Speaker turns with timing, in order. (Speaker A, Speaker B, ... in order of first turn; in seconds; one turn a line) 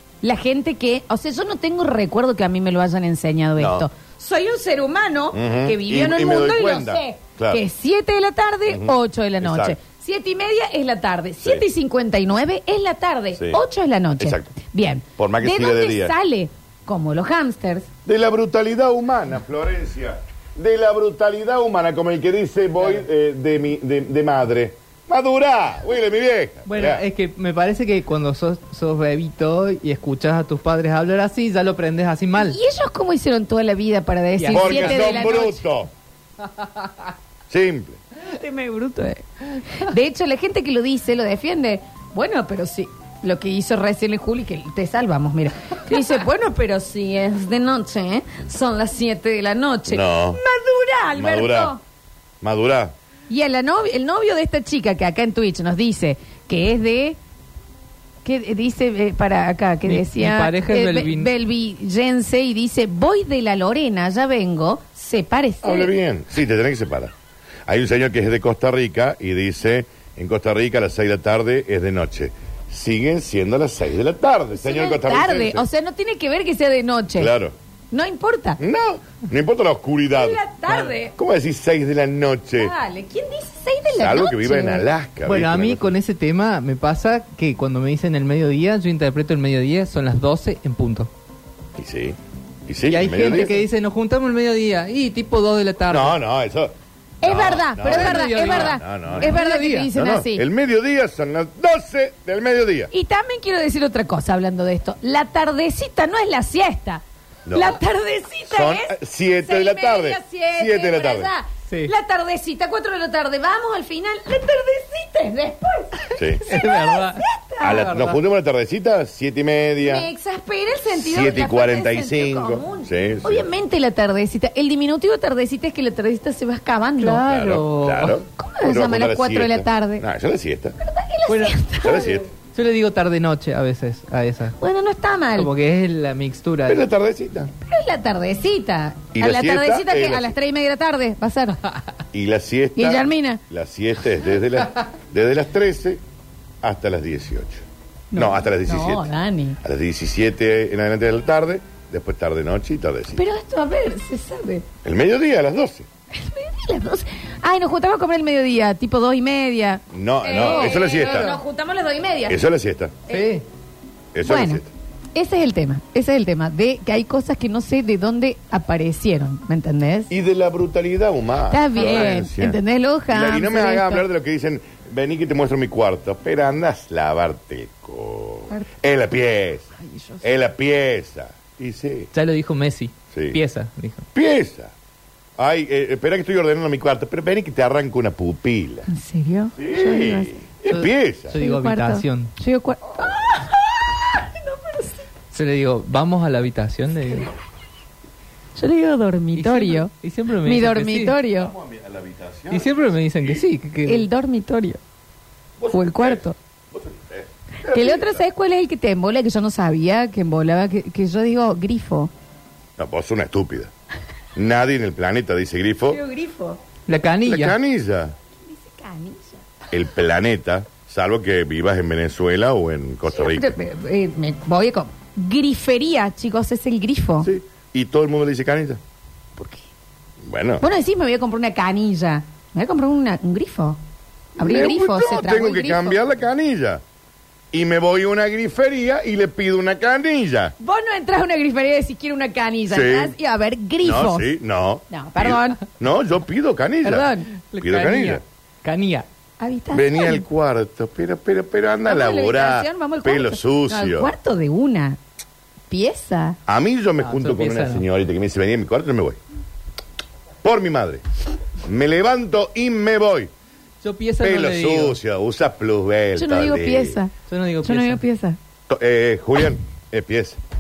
Speaker A: 0.2-17.9
Speaker B: 3.6-3.9
Speaker B: 5.3-7.6
Speaker B: 8.7-9.8
Speaker B: 13.4-13.6
Speaker B: 14.2-14.5
Speaker B: 15.2-16.1
Speaker B: 18.1-27.0
Speaker C: 26.7-32.6
Speaker A: 32.4-35.6
Speaker C: 34.4-35.3
Speaker B: 34.5-35.9
Speaker B: 37.5-38.0
Speaker A: 38.3-51.8
Speaker B: 49.9-50.4
Speaker B: 51.1-51.8
Speaker B: 52.4-53.0
Speaker A: 53.3-57.2
Speaker A: 58.2-65.9
Speaker C: 59.9-61.3
Speaker B: 65.6-67.1
Speaker B: 67.7-75.7
Speaker A: 74.6-77.3
Speaker B: 77.2-77.5
Speaker A: 77.9-78.6
Speaker B: 78.6-80.4
Speaker A: 80.1-81.1
Speaker B: 81.2-82.7
Speaker A: 82.5-84.9
Speaker B: 83.9-85.9
Speaker C: 85.3-91.1
Speaker B: 91.8-93.7
Speaker C: 92.9-96.2
Speaker B: 95.9-99.4
Speaker A: 97.2-100.5
Speaker C: 97.8-99.9
Speaker B: 99.9-102.9
Speaker A: 102.9-117.9
Speaker B: 107.5-107.8
Speaker B: 108.5-111.3
Speaker C: 111.7-111.9
Speaker B: 116.2-116.4
Speaker C: 116.5-118.2
Speaker B: 117.6-120.1
Speaker A: 119.8-127.2
Speaker B: 120.9-123.5
Speaker C: 127.0-128.2
Speaker B: 127.2-130.8
Speaker A: 128.4-130.0
Speaker A: 130.8-132.1
Speaker C: 131.3-134.6
Speaker B: 131.8-132.3
Speaker A: 134.6-135.5
Speaker C: 135.4-136.8
Speaker B: 136.7-137.5
Speaker A: 137.7-141.6
Speaker B: 139.1-140.3
Speaker B: 142.1-146.0
Speaker A: 142.8-143.4
Speaker B: 146.6-147.6
Speaker A: 148.1-149.6
Speaker B: 148.2-149.1
Speaker B: 149.6-153.2
Speaker A: 153.2-154.7
Speaker B: 154.8-155.9
Speaker A: 156.1-162.4
Speaker B: 159.9-161.3
Speaker C: 160.4-161.3
Speaker B: 162.3-163.0
Speaker A: 163.1-163.3
Speaker C: 163.1-163.4
Speaker B: 164.1-164.7
Speaker A: 164.2-164.6
Speaker A: 165.2-170.1
Speaker B: 170.1-172.6
Speaker A: 171.5-174.1
Speaker C: 171.8-172.2
Speaker B: 173.1-179.7
Speaker A: 179.8-180.2
Speaker B: 180.2-182.1
Speaker C: 182.1-184.1
Speaker B: 183.1-183.4
Speaker B: 184.2-184.7
Speaker B: 185.4-188.9
Speaker A: 188.9-190.4
Speaker B: 189.6-191.4
Speaker C: 190.7-192.3
Speaker A: 191.3-195.0
Speaker C: 195.3-197.3
Speaker A: 198.6-199.9
Speaker C: 199.4-201.2
Speaker A: 200.4-201.5
Speaker B: 201.3-203.4
Speaker C: 202.5-204.1
Speaker A: 203.9-204.8
Speaker B: 205.6-208.2
Speaker A: 205.7-206.4
Speaker A: 207.7-212.1
Speaker B: 212.8-213.7
Speaker B: 214.3-216.0
Speaker A: 215.9-216.6
Speaker C: 216.9-217.6
Speaker B: 217.2-218.2
Speaker A: 218.4-219.4
Speaker B: 219.7-223.5
Speaker A: 223.1-227.3
Speaker B: 227.2-228.8
Speaker A: 229.4-229.7
Speaker B: 230.2-230.7
Speaker A: 230.6-233.8
Speaker B: 234.4-236.8
Speaker A: 234.4-236.0
Speaker B: 237.5-240.5
Speaker A: 240.6-244.3
Speaker B: 242.7-243.2
Speaker B: 243.8-247.1
Speaker A: 244.9-245.6
Speaker A: 246.8-247.3
Speaker C: 247.4-249.1
Speaker B: 247.6-248.2
Speaker A: 249.4-250.3
Speaker B: 249.7-254.1
Speaker A: 251.8-255.0
Speaker A: 255.7-256.4
Speaker B: 256.5-259.2
Speaker C: 257.0-257.8
Speaker B: 260.4-261.0
Speaker B: 261.6-263.3
Speaker C: 263.8-265.0
Speaker B: 264.2-267.0
Speaker A: 266.2-268.4
Speaker C: 267.3-268.0
Speaker B: 268.7-270.4